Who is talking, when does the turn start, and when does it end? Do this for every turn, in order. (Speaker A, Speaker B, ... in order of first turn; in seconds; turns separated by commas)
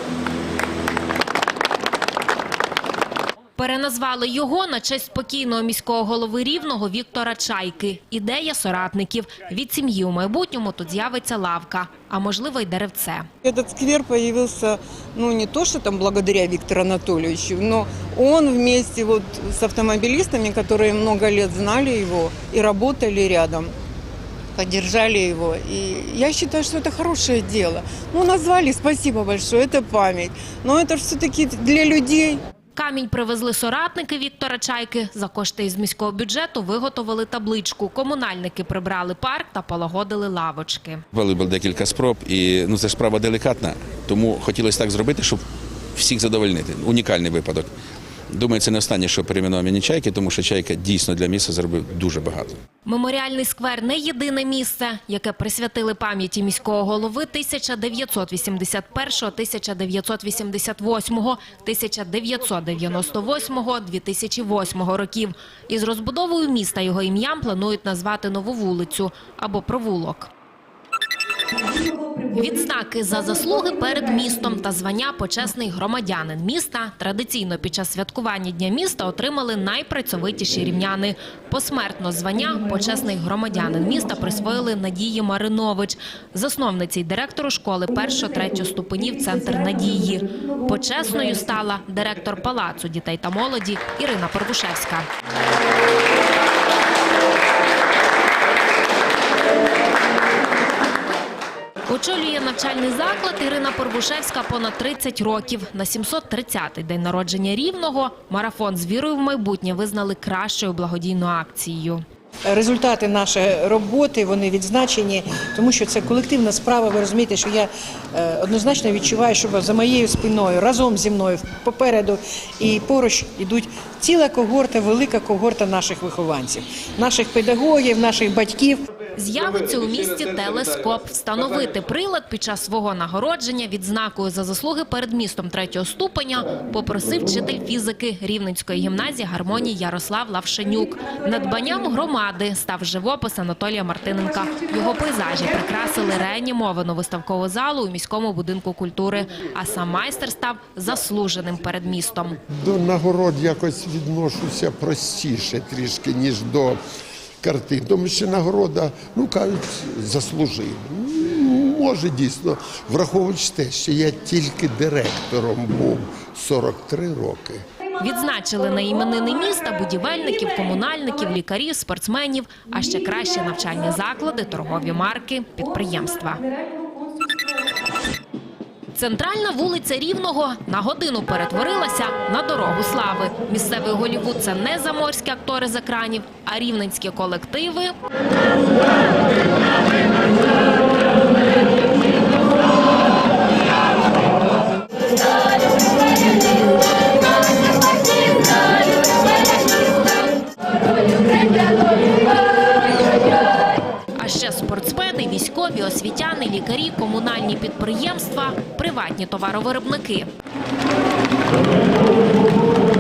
Speaker A: 3.6-13.3, Speaker B: 13.4-23.7, Speaker B: 24.6-32.4, Speaker A: 32.8-41.0, Speaker C: 41.1-45.4, Speaker C: 46.0-47.7, Speaker C: 48.3-52.5, Speaker A: 52.9-70.3, Speaker A: 71.9-95.1, Speaker A: 101.9-112.0, Speaker D: 112.5-128.8, Speaker A: 129.2-152.4, Speaker E: 152.5-156.8, Speaker E: 157.4-167.6, Speaker A: 168.0-176.5, Speaker A: 178.9-187.9, Speaker A: 204.2-210.3